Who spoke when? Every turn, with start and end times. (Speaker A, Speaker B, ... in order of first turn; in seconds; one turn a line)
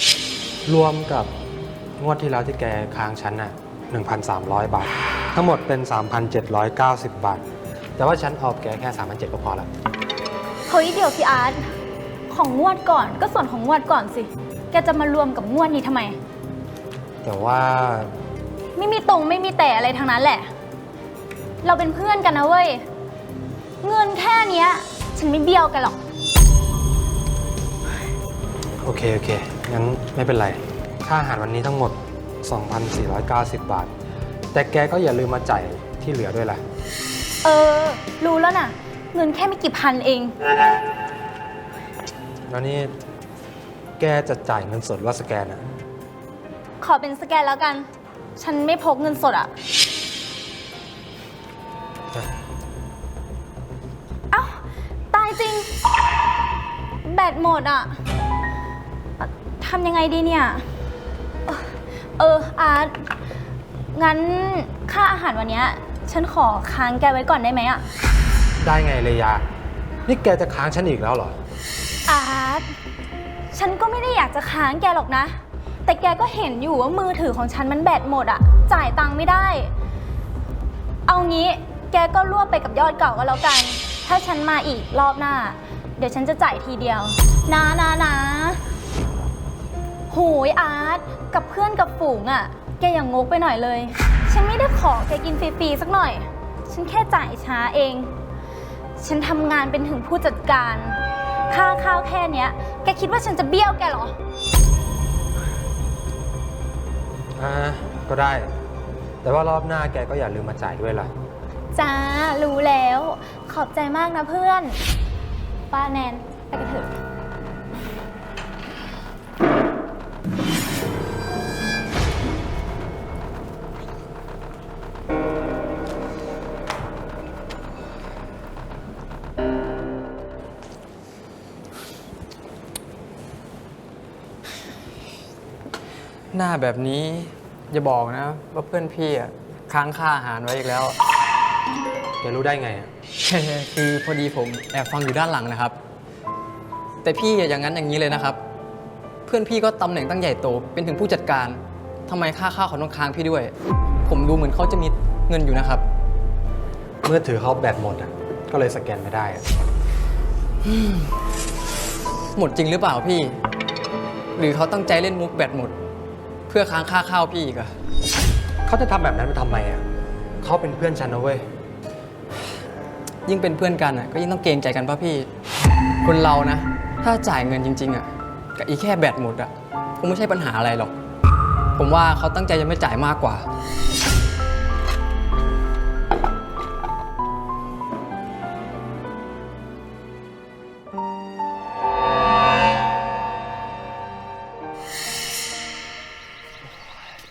Speaker A: 0.7-1.3
Speaker A: 2.0-7.4
Speaker A: 8.0-9.7
Speaker B: 10.7-11.7
Speaker B: 12.3-16.2
Speaker A: 17.2-18.1
Speaker B: 18.8-20.5
Speaker B: 21.6-22.8
Speaker B: 23.8-26.0
Speaker A: 28.8-33.9
Speaker A: 34.5-36.6
Speaker B: 37.4-40.4
Speaker A: 42.5-42.9
Speaker A: 44.0-45.6
Speaker B: 46.8-49.5
Speaker B: 54.3-55.7
Speaker B: 57.0-58.0
Speaker B: 59.2-60.6
Speaker B: 61.5-62.9
Speaker B: 63.9-67.8
Speaker A: 68.6-69.4
Speaker A: 70.0-71.4
Speaker B: 72.0-72.6
Speaker B: 73.5-79.7
Speaker B: 81.0-88.6
Speaker B: 90.1-98.1
Speaker B: 99.0-104.2
Speaker A: 107.4-108.5
Speaker A: 109.2-111.1
Speaker B: 111.7-114.8
Speaker B: 115.7-117.0
Speaker C: 136.3-141.0
Speaker A: 142.2-142.9
Speaker C: 143.2-145.8
Speaker C: 147.0-148.4
Speaker C: 149.2-153.5
Speaker C: 154.1-155.8
Speaker A: 157.0-159.4
Speaker C: 160.6-161.1
Speaker C: 162.3-163.4
Speaker C: 164.3-165.8
Speaker C: 166.5-167.7
Speaker A: 168.6-169.8
Speaker A: 170.4-171.5
Speaker C: 173.2-175.3
Speaker C: 176.0-180.9
Speaker C: 181.8-183.5